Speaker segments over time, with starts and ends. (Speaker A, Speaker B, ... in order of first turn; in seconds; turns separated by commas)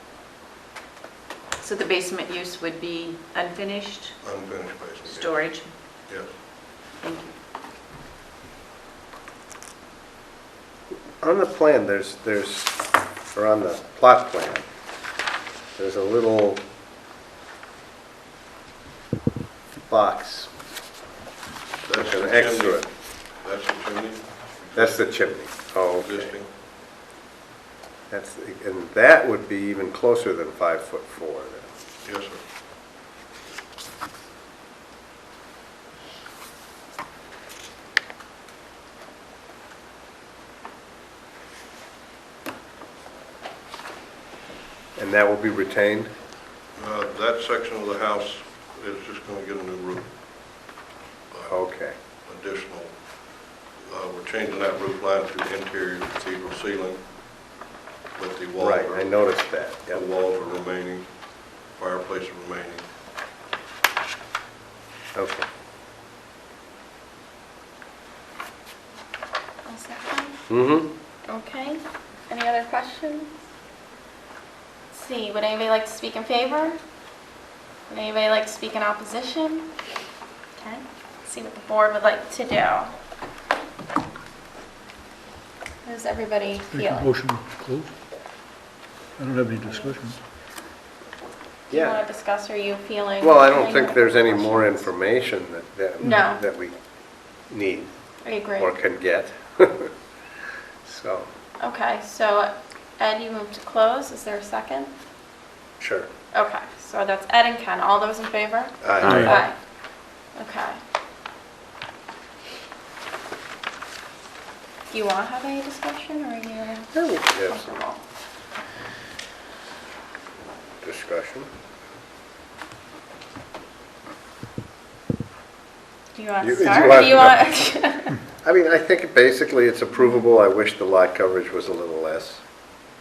Speaker A: 1.6-4.2, Speaker B: 4.2-5.3, Speaker A: 5.0-5.7, Speaker A: 7.0-7.3, Speaker C: 11.2-12.8, Speaker C: 13.3-14.6, Speaker C: 15.8-16.6, Speaker C: 19.9-20.5, Speaker B: 21.9-22.8, Speaker C: 22.0-22.9, Speaker B: 23.4-25.0, Speaker C: 24.7-26.3, Speaker B: 26.0-26.5, Speaker C: 28.1-31.7, Speaker B: 32.0-32.4, Speaker C: 45.0-46.1, Speaker B: 46.8-50.1, Speaker C: 51.4-52.0, Speaker B: 52.2-52.9, Speaker B: 53.9-57.0, Speaker B: 58.2-59.1, Speaker C: 58.6-60.0, Speaker B: 59.9-61.0, Speaker B: 61.7-62.8, Speaker C: 65.1-65.5, Speaker D: 69.6-70.4, Speaker C: 70.5-70.9, Speaker D: 71.3-73.3, Speaker D: 74.9-76.8, Speaker D: 77.9-79.7, Speaker D: 80.6-82.9, Speaker D: 85.8-87.1, Speaker E: 86.7-87.9, Speaker E: 89.2-90.2, Speaker C: 91.7-92.0, Speaker D: 91.7-94.9, Speaker C: 93.2-96.8, Speaker D: 96.0-96.4, Speaker C: 97.5-97.9, Speaker D: 98.2-98.7, Speaker C: 98.5-99.9, Speaker C: 100.8-101.3, Speaker D: 101.6-104.9, Speaker C: 105.8-106.1, Speaker D: 106.3-109.6, Speaker C: 108.8-109.4, Speaker E: 109.0-109.3, Speaker D: 110.3-110.8, Speaker D: 114.9-118.0, Speaker C: 116.9-117.6, Speaker C: 120.8-121.5, Speaker D: 126.1-128.2, Speaker C: 126.4-127.5, Speaker C: 128.4-132.4